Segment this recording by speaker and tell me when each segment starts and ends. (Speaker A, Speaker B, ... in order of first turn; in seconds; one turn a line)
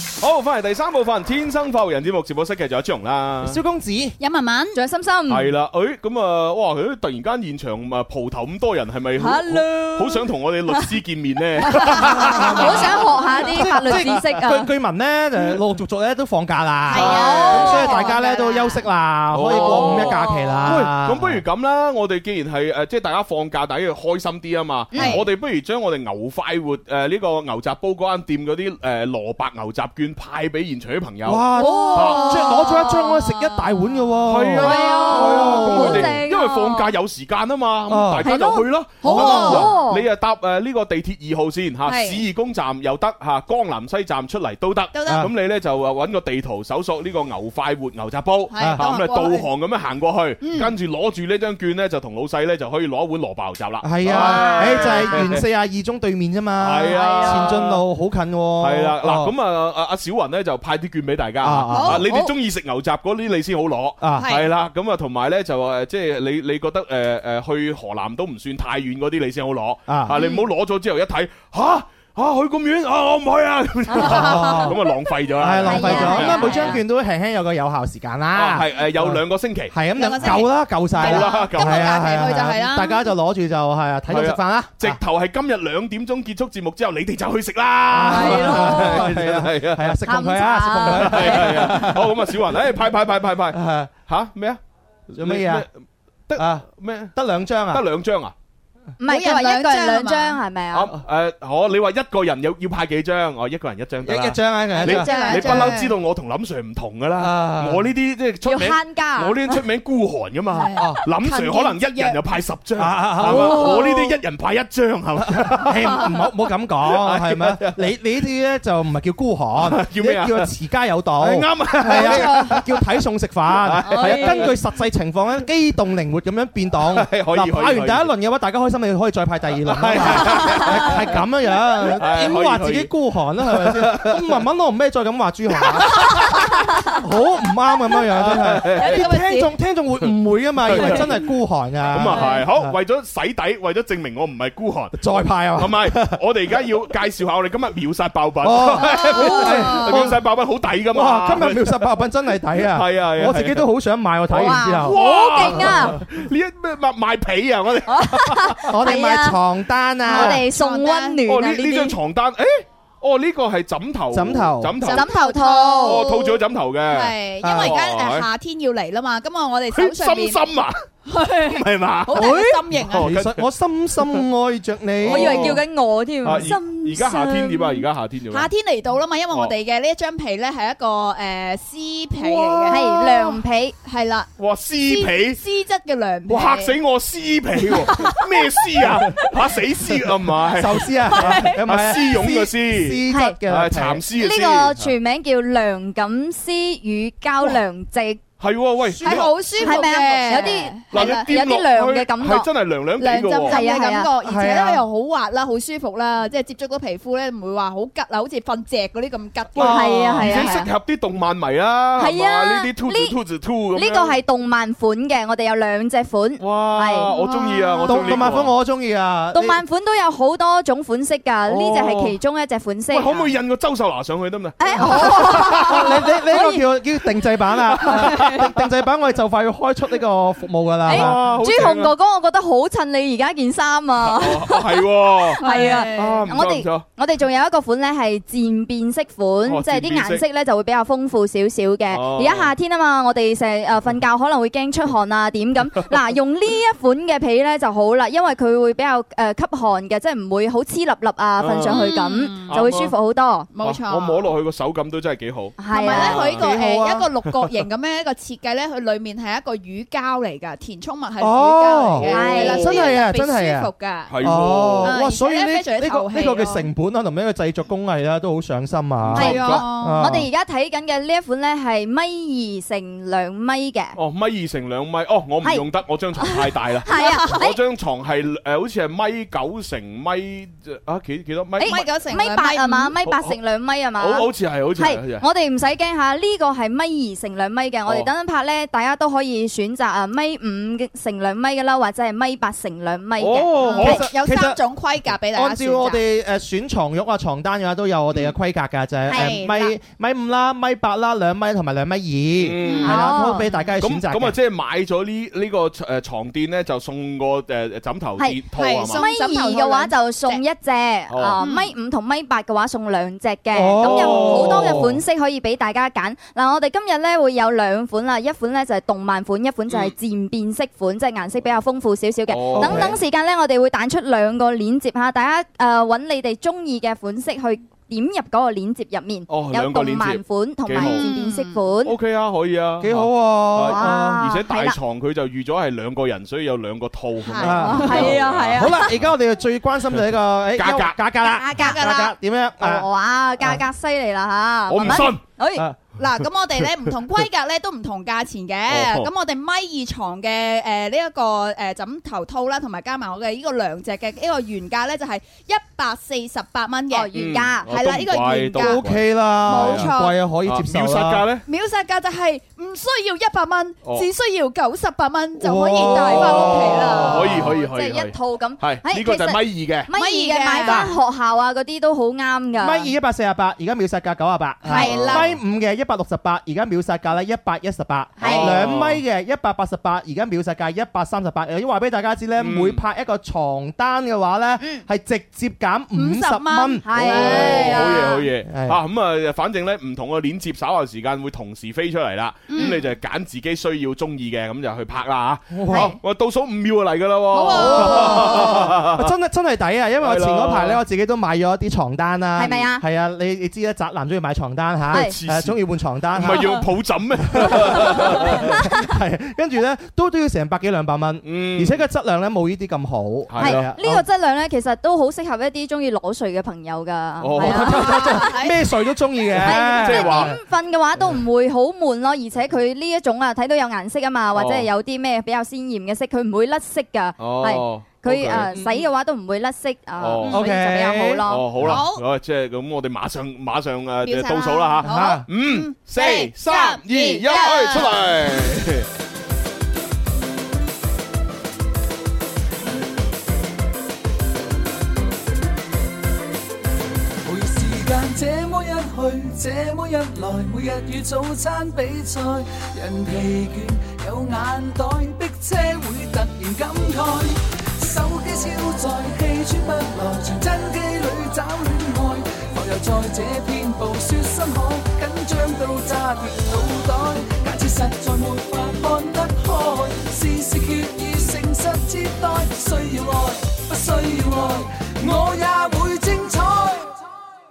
Speaker A: 0.2-3.6
Speaker B: 3.4-4.2
Speaker C: 4.2-4.8
Speaker D: 4.8-5.5
Speaker A: 5.3-13.1
Speaker D: 9.2-10.3
Speaker D: 11.7-14.7
Speaker C: 12.0-12.6
Speaker B: 12.1-13.0
Speaker B: 13.5-21.4
Speaker C: 16.9-18.8
Speaker D: 16.9-18.7
Speaker A: 19.3-32.5
Speaker D: 19.5-20.7
Speaker D: 24.9-25.2
Speaker B: 31.2-36.2
Speaker D: 31.5-33.3
Speaker C: 32.0-33.7
Speaker A: 34.2-55.4
Speaker D: 34.6-36.9
Speaker C: 34.6-35.6
Speaker B: 37.9-38.2
Speaker D: 38.2-40.1
Speaker C: 39.0-39.7
Speaker B: 39.0-39.7
Speaker C: 41.9-42.2
Speaker C: 44.9-45.3
Speaker B: 45.0-45.3
Speaker C: 48.5-49.5
Speaker B: 48.6-48.8
Speaker C: 50.4-50.7
Speaker B: 53.8-59.3
Speaker C: 54.1-55.3
Speaker D: 54.5-54.9
Speaker A: 56.6-57.8
Speaker C: 57.0-57.6
Speaker A: 58.6-76.8
Speaker B: 61.4-62.0
Speaker C: 61.7-62.1
Speaker B: 64.0-64.3
Speaker C: 64.2-64.5
Speaker B: 69.9-70.2
Speaker C: 70.2-70.4
Speaker C: 74.0-74.7
Speaker B: 74.0-74.8
Speaker B: 75.4-85.0
Speaker D: 75.6-76.8
Speaker C: 75.8-76.7
Speaker A: 78.3-82.2
Speaker C: 80.0-83.1
Speaker A: 84.1-90.0
Speaker B: 87.9-92.5
Speaker D: 88.1-89.1
Speaker D: 90.0-91.7
Speaker A: 90.8-94.6
Speaker B: 93.5-93.9
Speaker B: 95.1-95.7
Speaker A: 95.1-95.7
Speaker A: 96.3-97.2
Speaker B: 96.4-97.8
Speaker A: 97.7-98.3
Speaker D: 99.0-100.9
Speaker C: 99.1-100.4
Speaker A: 100.7-116.1
Speaker B: 104.0-105.7
Speaker C: 104.8-106.0
Speaker D: 105.1-105.5
Speaker B: 107.2-107.9
Speaker D: 108.4-109.4
Speaker C: 110.5-112.2
Speaker B: 112.8-113.9
Speaker C: 113.4-113.7
Speaker B: 115.3-136.3
Speaker A: 116.9-117.9
Speaker A: 119.6-120.5
Speaker A: 121.2-122.8
Speaker C: 121.9-122.6
Speaker A: 123.5-124.6
Speaker D: 123.9-124.5
Speaker A: 126.9-128.1
Speaker A: 129.7-131.2
Speaker A: 131.9-132.9
Speaker A: 133.4-134.4
Speaker A: 135.9-136.6
Speaker B: 136.9-142.7
Speaker A: 138.1-139.1
Speaker C: 138.8-139.5
Speaker A: 140.7-141.2
Speaker C: 140.8-141.1
Speaker A: 141.9-151.9
Speaker C: 142.1-142.4
Speaker B: 144.9-146.2
Speaker B: 148.4-150.2
Speaker C: 149.2-149.9
Speaker B: 150.9-155.7
Speaker A: 152.6-153.7
Speaker A: 154.3-158.8
Speaker D: 154.3-156.0
Speaker D: 157.9-159.4
Speaker B: 158.7-160.4
Speaker C: 160.1-161.2
Speaker D: 160.1-162.0
Speaker A: 161.3-165.1
Speaker B: 164.1-164.8
Speaker C: 164.9-170.4
Speaker D: 164.9-166.1
Speaker A: 165.8-168.3
Speaker B: 167.4-167.8
Speaker A: 169.7-170.8
Speaker C: 171.1-173.1
Speaker A: 171.5-173.5
Speaker B: 172.2-175.6
Speaker A: 175.0-175.6
Speaker D: 175.1-177.9
Speaker A: 176.2-178.5
Speaker C: 178.3-184.3
Speaker A: 182.2-182.8
Speaker D: 182.7-183.8
Speaker A: 184.4-185.4
Speaker C: 184.8-186.8
Speaker A: 186.3-194.9
Speaker C: 187.7-188.2
Speaker B: 190.5-194.0
Speaker C: 191.1-191.6
Speaker D: 193.1-193.4
Speaker D: 194.1-198.2
Speaker A: 198.4-199.8
Speaker C: 199.0-201.3
Speaker D: 199.1-202.5
Speaker A: 200.9-203.6
Speaker C: 203.0-209.8
Speaker D: 203.5-204.1
Speaker B: 204.2-204.8
Speaker A: 209.6-214.2
Speaker B: 209.6-210.3
Speaker D: 209.6-210.7
Speaker D: 212.0-213.2
Speaker D: 213.7-217.2
Speaker A: 216.4-218.5
Speaker C: 217.1-218.1
Speaker B: 217.9-219.6
Speaker D: 219.3-223.3
Speaker A: 221.5-222.2
Speaker A: 222.9-226.2
Speaker D: 224.6-226.7
Speaker B: 225.0-231.3
Speaker A: 227.7-228.5
Speaker A: 230.9-231.9
Speaker D: 230.9-234.9
Speaker A: 234.0-236.8
Speaker D: 235.4-253.5
Speaker C: 235.4-236.2
Speaker A: 239.4-240.2
Speaker A: 241.9-242.5
Speaker A: 251.4-251.9
Speaker C: 251.7-252.6
Speaker A: 252.5-252.9
Speaker C: 253.5-254.3
Speaker A: 253.6-256.5
Speaker D: 255.6-256.3
Speaker C: 255.7-264.2
Speaker B: 256.3-257.1
Speaker B: 261.2-270.3
Speaker D: 262.1-262.9
Speaker A: 264.1-265.0
Speaker C: 264.8-266.7
Speaker A: 269.0-269.6
Speaker D: 269.1-274.0
Speaker C: 269.2-270.1
Speaker A: 274.0-281.9
Speaker D: 276.2-277.6
Speaker C: 276.9-277.4
Speaker D: 281.6-294.0
Speaker C: 281.6-282.9
Speaker A: 283.0-283.4
Speaker A: 284.0-285.2
Speaker A: 293.2-294.1
Speaker B: 293.6-294.6
Speaker C: 293.6-296.0
Speaker B: 295.3-304.4
Speaker C: 299.1-299.7
Speaker D: 299.1-299.5
Speaker A: 302.4-303.1
Speaker C: 302.6-303.5
Speaker D: 302.7-303.5
Speaker A: 303.8-309.0
Speaker D: 308.2-332.0
Speaker C: 308.5-310.4
Speaker A: 311.1-311.4
Speaker C: 311.4-311.7
Speaker B: 313.5-315.0
Speaker A: 313.8-314.9
Speaker A: 319.7-319.9
Speaker A: 322.3-323.0
Speaker B: 322.6-323.0
Speaker A: 329.3-331.1
Speaker C: 330.8-331.6
Speaker A: 331.8-339.1
Speaker B: 332.8-334.2
Speaker D: 333.6-334.8
Speaker C: 337.2-338.1
Speaker B: 337.4-342.9
Speaker D: 337.6-338.9
Speaker A: 340.6-341.0
Speaker D: 341.3-341.9
Speaker C: 341.4-342.1
Speaker D: 342.6-345.7
Speaker A: 344.7-345.2
Speaker B: 344.8-345.1
Speaker C: 346.0-357.1
Speaker A: 348.7-349.1
Speaker D: 356.9-357.7
Speaker A: 357.1-359.9
Speaker C: 357.7-358.8
Speaker B: 358.6-361.3
Speaker C: 359.4-360.1
Speaker A: 360.4-361.4
Speaker C: 361.5-367.5
Speaker B: 365.4-367.6
Speaker A: 365.9-369.9
Speaker D: 367.1-372.9
Speaker C: 369.9-370.9
Speaker B: 372.6-387.8
Speaker C: 374.7-375.3
Speaker D: 374.7-375.0
Speaker A: 374.8-375.4
Speaker D: 378.2-378.5
Speaker A: 378.2-379.0
Speaker C: 378.2-378.6
Speaker A: 382.4-382.8
Speaker C: 385.9-388.2
Speaker D: 386.8-388.1
Speaker A: 386.9-399.1
Speaker B: 388.5-388.8
Speaker C: 392.5-392.8
Speaker B: 395.5-396.0
Speaker C: 397.3-398.6
Speaker B: 397.5-406.6
Speaker A: 400.0-400.8
Speaker D: 402.4-402.8
Speaker A: 404.9-408.6
Speaker B: 407.3-414.0
Speaker A: 411.2-411.8
Speaker A: 413.3-413.7
Speaker D: 413.4-418.4
Speaker A: 417.2-417.9
Speaker B: 417.4-420.4
Speaker C: 417.8-418.6
Speaker A: 419.4-420.4
Speaker D: 419.4-431.6
Speaker A: 424.3-424.7
Speaker A: 427.2-428.6
Speaker A: 430.0-430.5
Speaker B: 430.3-431.8
Speaker A: 431.2-438.9
Speaker C: 431.6-432.0
Speaker C: 434.0-438.0
Speaker B: 434.8-435.3
Speaker E: 447.2-477.0